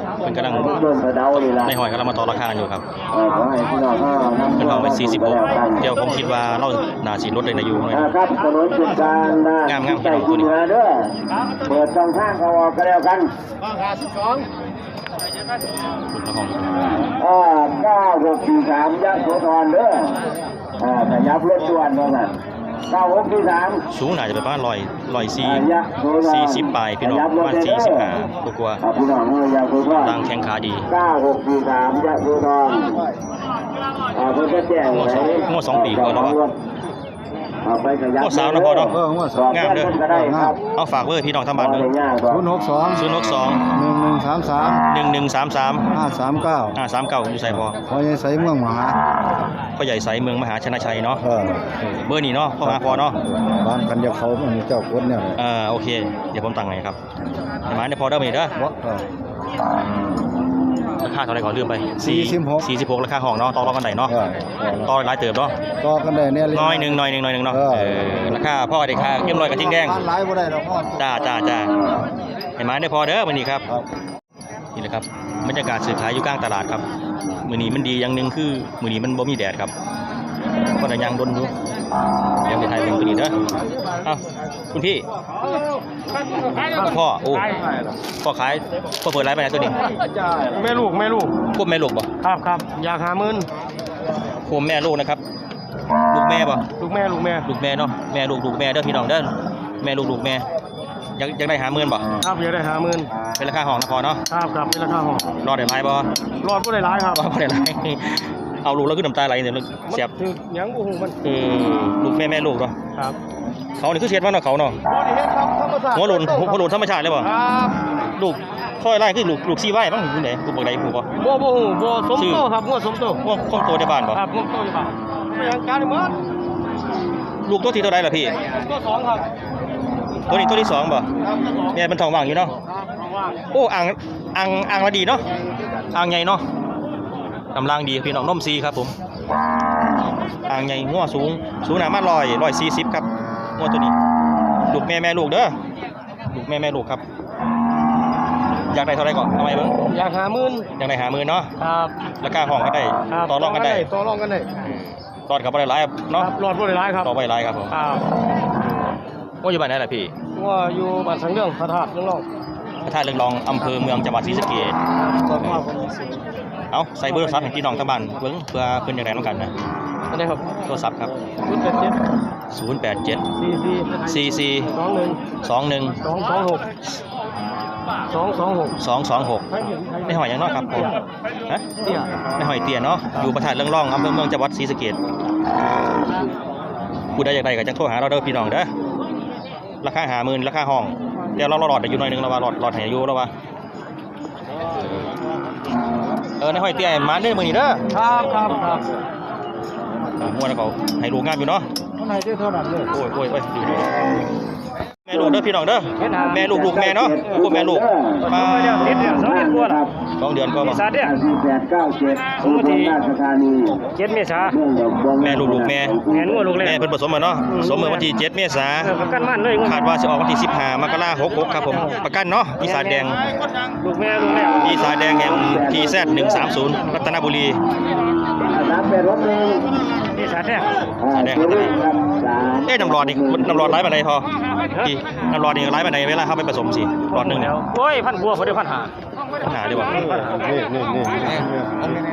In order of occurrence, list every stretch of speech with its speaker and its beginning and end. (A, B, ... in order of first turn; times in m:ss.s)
0:00.2-0:00.8 A
0:00.4-0:01.7 B
0:01.6-0:02.8 A
0:03.1-0:05.9 B
0:04.6-0:08.1 A
0:07.9-0:11.1 B
0:09.6-0:10.5 A
0:11.6-0:13.3 B
0:16.1-0:16.7 A
0:17.2-0:20.2 B
0:20.8-0:22.4 B
0:22.9-0:23.8 B
0:23.9-0:25.6 A
0:25.4-0:28.1 B
0:26.2-0:28.8 A
0:28.8-0:30.2 B
0:29.9-0:30.8 A
0:30.9-0:33.0 B
0:34.1-0:36.6 B
0:34.9-0:36.4 A
0:37.6-0:40.6 B
0:38.2-0:39.0 A
0:38.9-0:39.5 C
0:39.5-0:40.0 A
0:40.1-0:40.6 C
0:40.7-0:41.9 A
0:41.6-0:42.4 B
0:42.3-0:43.0 C
0:42.9-0:43.6 A
0:43.7-0:44.8 C
0:44.9-0:45.9 A
0:45.9-0:46.8 C
0:46.7-0:47.8 A
0:47.9-0:49.0 C
0:49.8-0:51.2 A
0:51.2-0:51.7 C
0:51.8-0:53.2 A
0:52.6-0:55.4 C
0:55.4-0:57.0 A
0:57.7-0:58.5 A
0:58.6-0:59.0 C
1:01.0-1:04.1 A
1:02.0-1:02.7 C
1:04.1-1:04.9 C
1:04.8-1:05.5 A
1:05.8-1:08.0 C
1:06.5-1:10.0 A
1:09.2-1:11.3 C
1:11.0-1:11.7 A
1:12.6-1:13.6 A
1:14.8-1:16.8 A
1:17.4-1:19.7 A
1:20.8-1:21.5 A
1:22.4-1:23.4 A
1:24.7-1:25.0 A
1:26.1-1:28.0 D
1:26.8-1:27.5 A
1:28.1-1:29.8 A
1:30.4-1:31.3 D
1:31.5-1:32.1 A
1:32.2-1:33.5 D
1:34.4-1:35.2 A
1:36.1-1:36.6 A
1:36.8-1:37.5 D
1:37.4-1:40.4 A
1:41.2-1:42.1 A
1:42.2-1:43.1 D
1:43.4-1:44.2 A
1:44.3-1:45.3 D
1:45.4-1:46.1 A
1:46.4-1:47.2 D
1:47.1-1:50.1 A
1:49.9-1:51.2 D
1:51.2-1:52.7 A
1:53.8-1:54.8 A
1:55.2-1:56.6 D
1:55.9-1:57.3 A
1:57.2-1:57.8 D
1:58.2-2:01.1 A
2:01.2-2:03.2 D
2:02.1-2:02.5 A
2:03.2-2:04.2 A
2:04.1-2:06.1 D
2:07.4-2:08.4 A
2:08.4-2:09.2 D
2:10.3-2:11.1 A
2:11.7-2:12.5 A
2:13.0-2:13.3 D
2:13.5-2:15.2 A
2:15.9-2:16.4 A
2:17.5-2:18.9 A
2:20.5-2:23.1 A
2:23.6-2:23.9 A
2:24.7-2:25.5 A
2:26.3-2:27.0 A
2:28.7-2:29.7 A
2:29.9-2:30.7 D
2:30.8-2:31.5 A
2:31.6-2:31.9 D
2:32.2-2:33.9 A
2:33.1-2:34.5 D
2:34.6-2:36.3 A
2:36.1-2:37.1 D
2:37.0-2:37.7 A
2:37.7-2:38.0 D
2:39.4-2:40.1 A
2:40.3-2:42.2 D
2:42.8-2:44.8 A
2:45.1-2:46.2 D
2:45.3-2:45.7 A
2:46.7-2:49.5 A
2:47.1-2:47.6 D
2:50.1-2:50.6 D
2:50.7-2:51.1 A
2:51.5-2:52.0 D
2:52.5-2:53.2 A
2:53.4-2:54.1 D
2:54.1-2:54.7 A
2:54.7-2:55.2 D
2:55.4-2:56.0 A
2:56.0-2:56.6 D
2:58.1-2:58.8 D
2:58.8-2:59.4 A
2:59.5-3:00.9 D
3:00.0-3:00.9 A
3:01.8-3:02.1 D
3:02.4-3:05.0 A
3:07.2-3:08.7 A
3:09.8-3:13.3 A
3:14.7-3:15.2 A
3:16.4-3:17.8 A
3:17.9-3:18.8 D
3:20.2-3:21.6 A
3:22.9-3:23.9 A
3:25.1-3:28.8 A
3:25.1-3:25.4 B
3:26.0-3:26.4 D
3:26.2-3:29.9 B
3:28.3-3:29.8 D
3:30.2-3:30.8 A
3:30.5-3:31.1 D
3:30.9-3:33.8 B
3:32.4-3:33.0 D
3:34.0-3:34.5 D
3:34.4-3:36.6 B
3:35.2-3:36.0 A
3:36.1-3:36.8 D
3:36.6-3:38.9 A
3:37.5-3:38.1 D
3:38.8-3:39.9 D
3:39.6-3:43.2 A
3:41.7-3:42.0 D
3:42.6-3:43.2 D
3:43.7-3:44.9 D
3:44.5-3:46.5 B
3:44.6-3:47.6 A
3:48.4-3:49.6 B
3:50.1-3:50.7 D
3:51.0-3:53.8 B
3:51.1-3:51.7 A
3:52.7-3:54.2 A
3:54.8-3:57.5 A
3:57.1-3:58.9 D
3:59.4-4:00.2 A
4:00.3-4:02.0 C